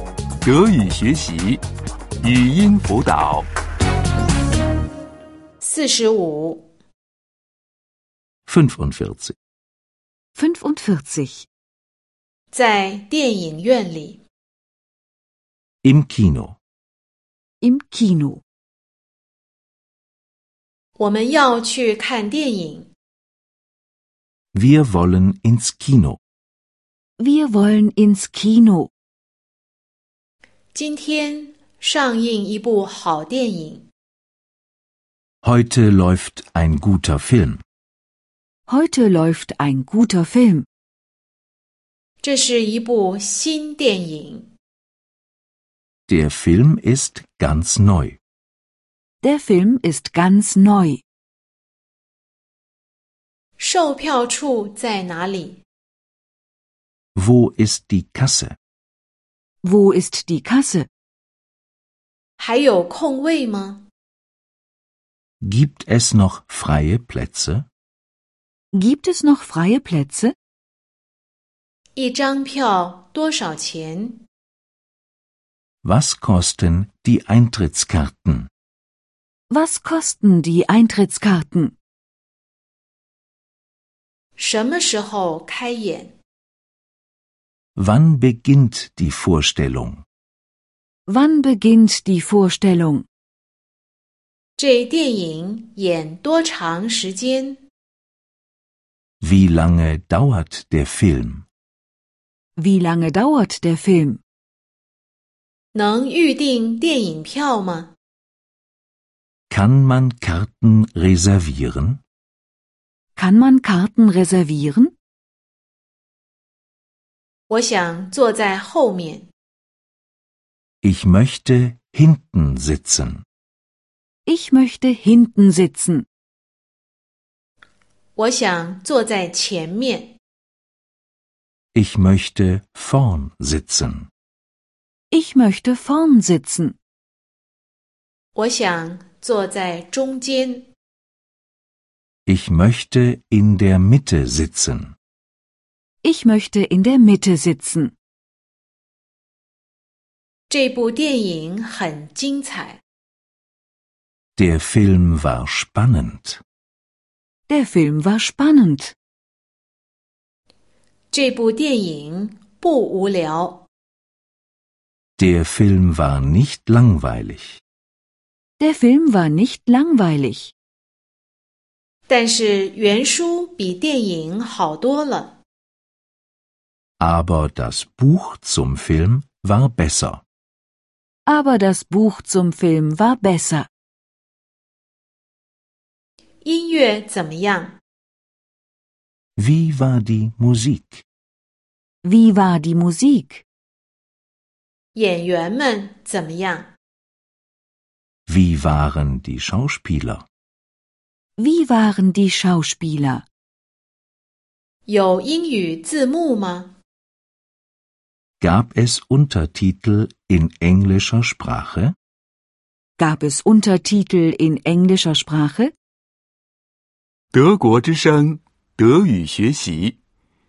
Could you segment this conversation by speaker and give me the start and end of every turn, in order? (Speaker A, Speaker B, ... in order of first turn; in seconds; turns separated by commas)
Speaker A: 0.4-1.6, Speaker A: 2.2-3.5, Speaker B: 5.6-6.7, Speaker C: 8.5-9.3, Speaker D: 10.4-11.5, Speaker B: 12.5-14.2, Speaker C: 15.8-16.6, Speaker D: 17.6-18.4, Speaker B: 21.0-22.9, Speaker C: 24.5-26.2, Speaker D: 27.2-28.9, Speaker B: 30.7-33.9, Speaker C: 35.4-37.6, Speaker D: 38.7-40.7, Speaker B: 42.2-44.5, Speaker C: 46.1-48.2, Speaker D: 49.2-51.0, Speaker B: 53.6-55.6, Speaker C: 57.2-58.6, Speaker D: 59.6-60.9, Speaker B: 62.4-63.9, Speaker C: 65.4-67.7, Speaker D: 68.7-70.3, Speaker B: 72.0-74.2, Speaker C: 75.8-78.5, Speaker D: 79.5-81.8, Speaker B: 84.4-86.1, Speaker C: 87.8-90.0, Speaker D: 91.1-93.0, Speaker B: 94.6-97.6, Speaker C: 99.2-101.5, Speaker D: 102.6-104.2, Speaker B: 105.7-107.9, Speaker C: 109.5-112.0, Speaker D: 113.2-114.9, Speaker B: 117.5-119.3, Speaker C: 120.8-123.2, Speaker D: 124.3-126.1, Speaker B: 128.2-130.2, Speaker C: 131.7-134.1, Speaker D: 135.1-136.8, Speaker B: 138.3-140.7, Speaker C: 142.3-144.9, Speaker D: 146.0-147.9, Speaker B: 150.5-152.8, Speaker C: 154.4-156.4, Speaker D: 157.5-158.9, Speaker B: 161.1-163.7, Speaker C: 165.2-167.6, Speaker D: 168.6-170.5, Speaker B: 172.1-175.3, Speaker C: 177.0-180.2, Speaker D: 181.3-183.7, Speaker B: 186.4-187.8, Speaker C: 189.4-191.1, Speaker D: 192.0-193.4, Speaker B: 194.9-196.7, Speaker C: 198.3-200.3, Speaker D: 201.4-203.2, Speaker B: 204.9-206.7, Speaker C: 208.4-211.9, Speaker D: 213.0-215.7, Speaker A: 217.3-220.0